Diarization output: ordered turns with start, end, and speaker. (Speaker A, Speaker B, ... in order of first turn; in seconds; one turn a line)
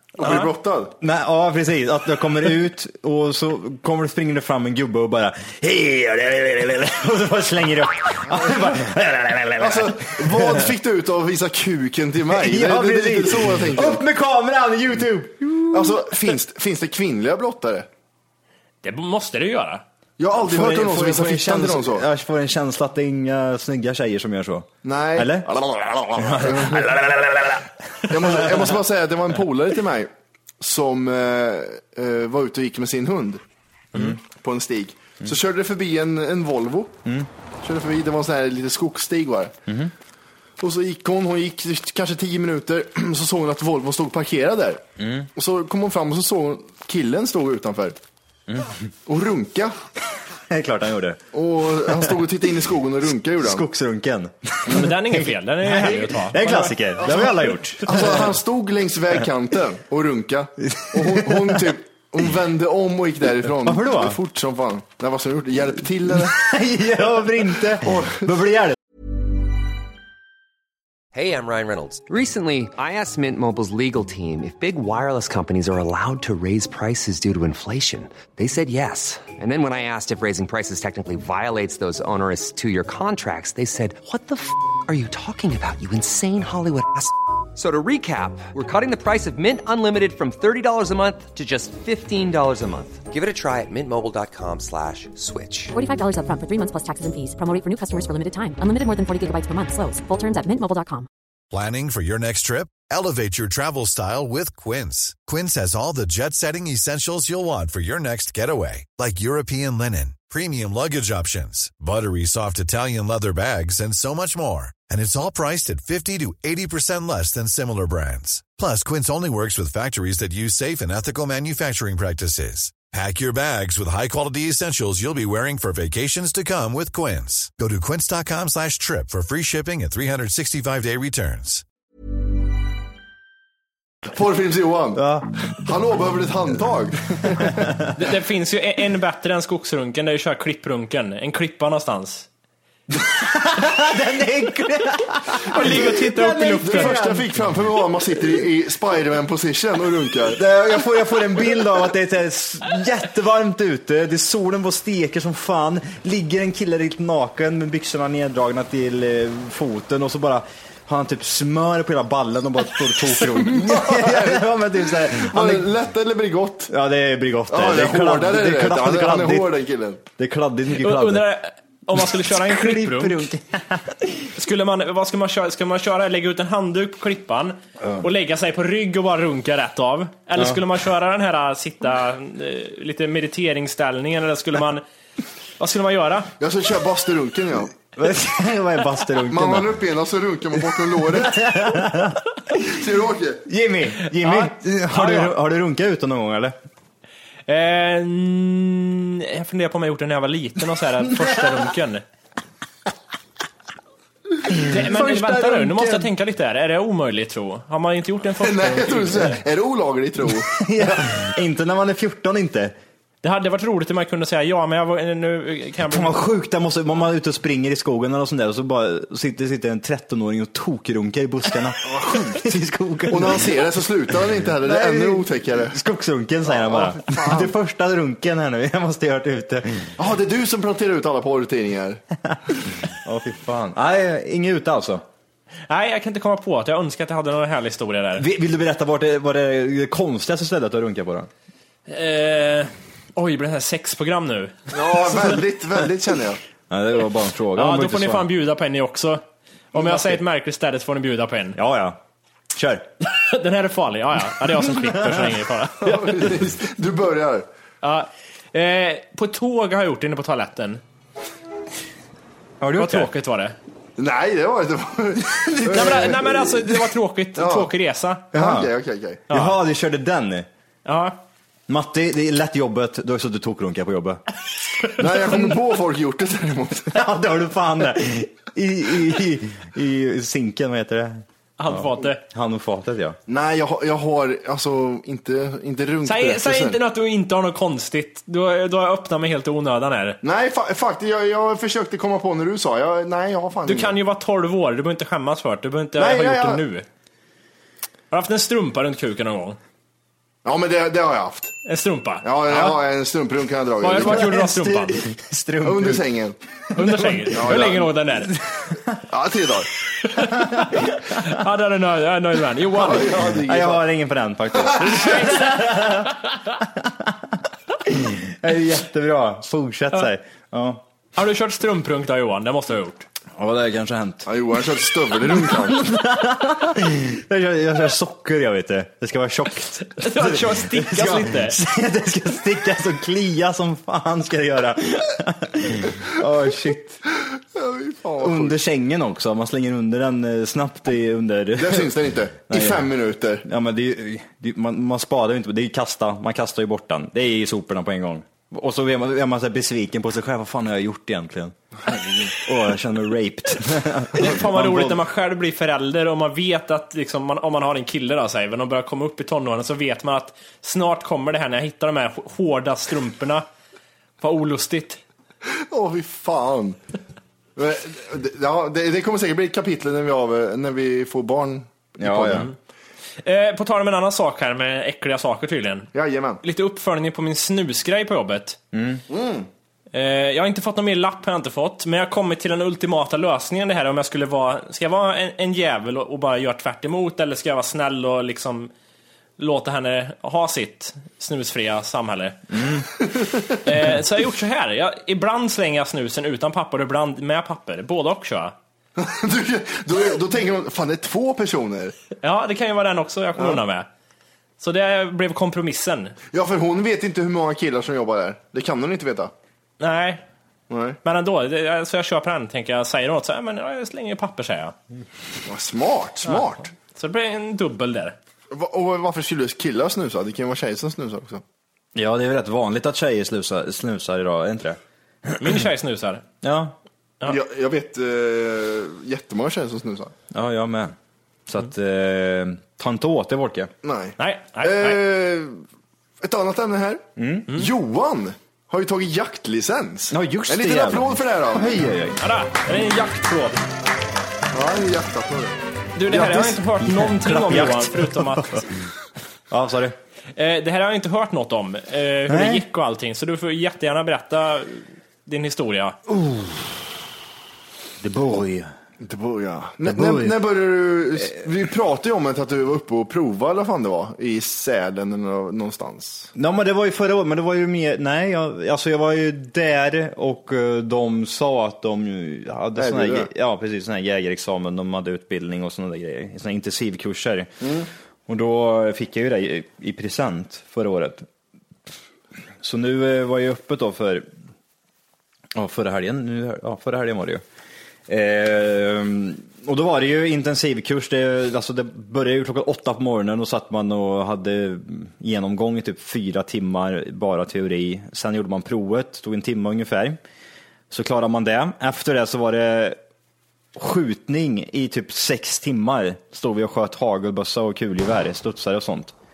Speaker A: 0.2-0.9
Speaker B: 0.2-0.5
Speaker C: 1.0-10.7
Speaker A: 9.6-14.0
Speaker C: 12.3-16.3
Speaker A: 15.7-17.9
Speaker B: 18.8-19.8
Speaker A: 20.2-22.1
Speaker C: 20.4-25.5
Speaker A: 24.8-26.9
Speaker C: 26.1-27.6
Speaker A: 28.1-30.1
Speaker C: 28.1-28.5
Speaker A: 30.6-33.4
Speaker C: 33.9-34.2
Speaker A: 34.0-37.0
Speaker A: 37.6-39.5
Speaker C: 39.7-39.9
Speaker A: 40.6-44.8
Speaker C: 45.0-45.3
Speaker A: 45.4-48.0
Speaker C: 48.5-48.8
Speaker A: 49.0-49.8
Speaker C: 50.5-51.2
Speaker A: 51.3-53.6
Speaker C: 51.8-52.1
Speaker C: 53.4-58.3
Speaker B: 54.7-56.8
Speaker A: 57.0-66.4
Speaker C: 60.8-61.6
Speaker C: 63.4-64.2
Speaker C: 66.2-68.8
Speaker A: 67.8-68.3
Speaker D: 71.1-95.7
Speaker E: 95.7-101.1
Speaker F: 101.5-131.6
Speaker A: 134.1-137.6
Speaker C: 134.9-135.3
Speaker B: 137.9-142.3
Speaker C: 142.9-148.4
Speaker B: 145.4-147.1
Speaker A: 146.6-150.4
Speaker C: 150.3-165.7
Speaker A: 163.1-166.7
Speaker C: 166.7-169.5
Speaker A: 167.5-170.0
Speaker C: 170.2-171.3
Speaker B: 170.7-173.3
Speaker C: 171.9-174.3
Speaker B: 174.4-184.8
Speaker C: 180.4-180.6
Speaker B: 185.6-186.3
Speaker A: 186.4-187.7
Speaker C: 187.9-189.8
Speaker A: 189.3-191.6
Speaker C: 191.1-192.2
Speaker A: 192.6-193.4
Speaker C: 193.5-196.6
Speaker B: 194.1-195.3
Speaker B: 197.5-202.0
Speaker C: 204.5-206.1
Speaker B: 204.7-209.4
Speaker A: 208.4-211.1
Speaker C: 210.5-212.7
Speaker B: 213.2-216.2
Speaker C: 215.9-223.6
Speaker A: 221.8-222.4
Speaker A: 223.1-225.8
Speaker C: 224.6-229.9
Speaker A: 226.5-227.5
Speaker A: 230.0-232.0
Speaker C: 232.9-235.0
Speaker B: 235.7-238.2
Speaker C: 238.2-241.3
Speaker B: 241.9-245.4
Speaker A: 244.7-246.4
Speaker C: 246.7-248.3
Speaker B: 247.6-249.2
Speaker B: 249.7-251.6
Speaker C: 251.6-252.0
Speaker C: 252.5-252.9
Speaker B: 253.1-256.4
Speaker A: 255.8-257.5
Speaker B: 257.8-260.8
Speaker C: 262.6-263.1
Speaker B: 262.8-263.6
Speaker A: 264.0-266.8
Speaker B: 265.6-268.3
Speaker A: 267.4-267.7
Speaker A: 268.3-269.2
Speaker C: 268.3-268.7
Speaker B: 269.3-269.6
Speaker C: 269.3-270.5
Speaker B: 270.9-271.2
Speaker C: 271.7-274.2
Speaker A: 275.0-277.0
Speaker C: 276.9-283.2
Speaker B: 281.6-282.2
Speaker A: 283.3-286.8
Speaker B: 286.1-290.2
Speaker A: 290.2-293.9
Speaker B: 293.6-296.9
Speaker A: 296.0-296.6
Speaker B: 298.1-299.6
Speaker A: 300.4-301.5
Speaker B: 301.6-302.8
Speaker A: 302.2-304.4
Speaker B: 303.8-305.0
Speaker C: 304.0-306.0
Speaker A: 305.6-306.4
Speaker B: 306.7-308.4
Speaker A: 307.0-307.9
Speaker A: 309.1-309.7
Speaker B: 310.2-313.1
Speaker A: 312.7-313.8
Speaker C: 313.1-317.3
Speaker A: 314.6-315.1
Speaker B: 314.8-316.1
Speaker C: 317.9-320.8
Speaker B: 321.1-323.1
Speaker C: 323.4-324.3
Speaker A: 324.3-325.8
Speaker C: 325.2-337.0
Speaker B: 330.0-331.6
Speaker A: 337.6-338.6
Speaker C: 338.2-341.9
Speaker A: 341.6-343.4
Speaker C: 342.5-342.9
Speaker C: 343.4-351.6
Speaker A: 351.9-352.3
Speaker C: 352.4-355.0
Speaker B: 354.2-363.4
Speaker B: 364.2-365.0
Speaker A: 365.7-366.8
Speaker A: 367.6-372.5
Speaker C: 372.0-372.5
Speaker B: 373.2-375.9
Speaker A: 375.9-376.4
Speaker B: 376.4-378.6
Speaker C: 378.7-379.0
Speaker A: 379.1-379.5
Speaker B: 379.9-388.7
Speaker B: 389.4-392.4
Speaker C: 392.5-392.9
Speaker A: 393.1-393.5
Speaker B: 393.6-398.6
Speaker A: 399.0-401.9
Speaker B: 402.2-403.9
Speaker B: 404.6-406.1
Speaker A: 406.3-409.3
Speaker B: 409.8-410.2
Speaker A: 410.7-411.0
Speaker B: 411.0-414.7
Speaker A: 415.5-416.7
Speaker B: 416.3-418.1
Speaker A: 418.5-421.4
Speaker C: 421.9-425.6
Speaker B: 425.4-426.2
Speaker C: 426.4-426.7
Speaker A: 427.2-430.1
Speaker C: 430.3-430.9
Speaker C: 431.5-433.7
Speaker A: 433.8-435.6
Speaker B: 434.2-435.0
Speaker A: 436.2-441.8
Speaker C: 437.2-437.5
Speaker C: 440.1-442.2
Speaker B: 442.2-443.6
Speaker A: 444.5-445.6
Speaker B: 445.9-448.7
Speaker A: 446.1-446.5
Speaker C: 446.8-448.6
Speaker C: 449.5-450.0
Speaker B: 450.4-456.0
Speaker C: 452.3-452.6
Speaker C: 456.1-456.7
Speaker C: 458.0-458.7
Speaker A: 459.0-466.3
Speaker C: 459.8-460.4
Speaker C: 466.4-477.5
Speaker A: 472.8-473.3
Speaker A: 477.6-477.9
Speaker C: 478.3-481.3
Speaker C: 482.6-484.3
Speaker C: 485.5-487.4
Speaker C: 488.1-500.2
Speaker C: 500.9-503.0
Speaker C: 503.7-509.1